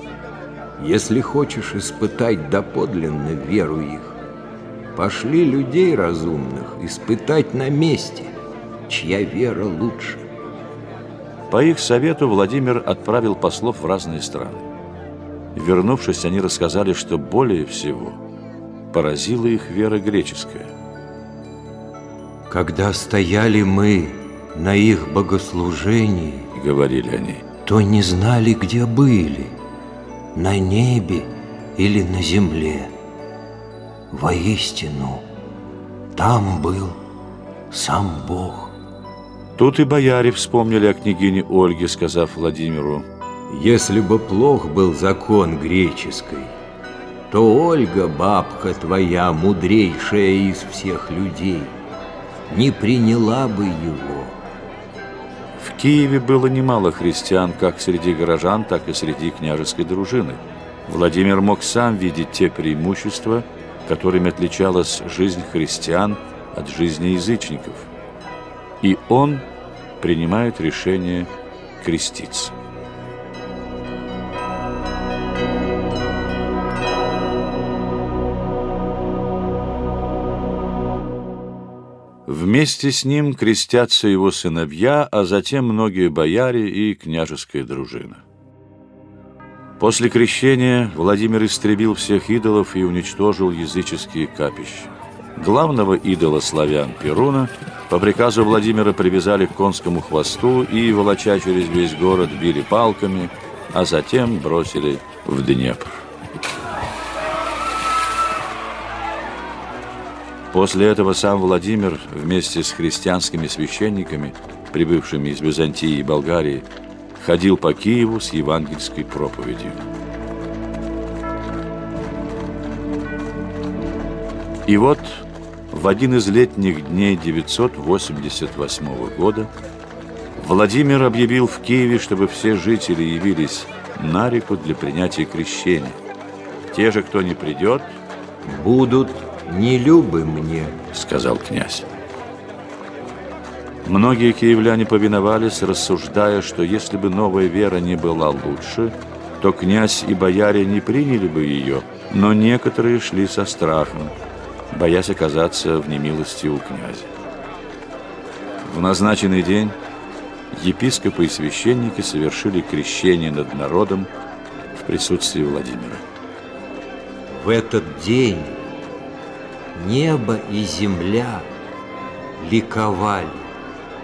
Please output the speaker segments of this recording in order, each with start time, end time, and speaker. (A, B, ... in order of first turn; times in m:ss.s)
0:00.8-0:04.2 A
0:04.9-0:08.3 A
0:08.9-0:10.2 A
0:11.5-0:14.6 B
0:15.5-0:18.2 B
0:18.9-0:20.7 B
0:22.5-0:26.5 A
0:26.5-0:27.5 B
0:27.6-0:29.6 A
0:30.3-0:32.9 A
0:34.1-0:35.2 A
0:36.1-0:37.0 A
0:37.7-0:38.7 A
0:39.6-0:43.0 B
0:43.5-0:46.5 A
0:47.3-0:51.8 A
0:52.5-0:54.4 A
0:55.6-1:07.9 B
1:08.8-1:09.4 B
1:10.0-1:12.5 B
1:22.2-1:28.2 B
1:29.8-1:46.0 B
1:50.5-1:59.8 B
2:04.7-2:09.5 B
2:10.4-2:16.0 B
2:16.7-2:18.0 B
2:18.4-2:20.8 A
2:20.9-2:21.9 B
2:23.8-2:34.1 B
2:34.7-2:37.1 B
2:38.6-2:39.8 B
2:40.5-2:44.1 B
2:44.7-2:46.1 B
2:47.3-2:48.7 A
2:49.7-2:51.5 A
2:52.4-2:53.5 A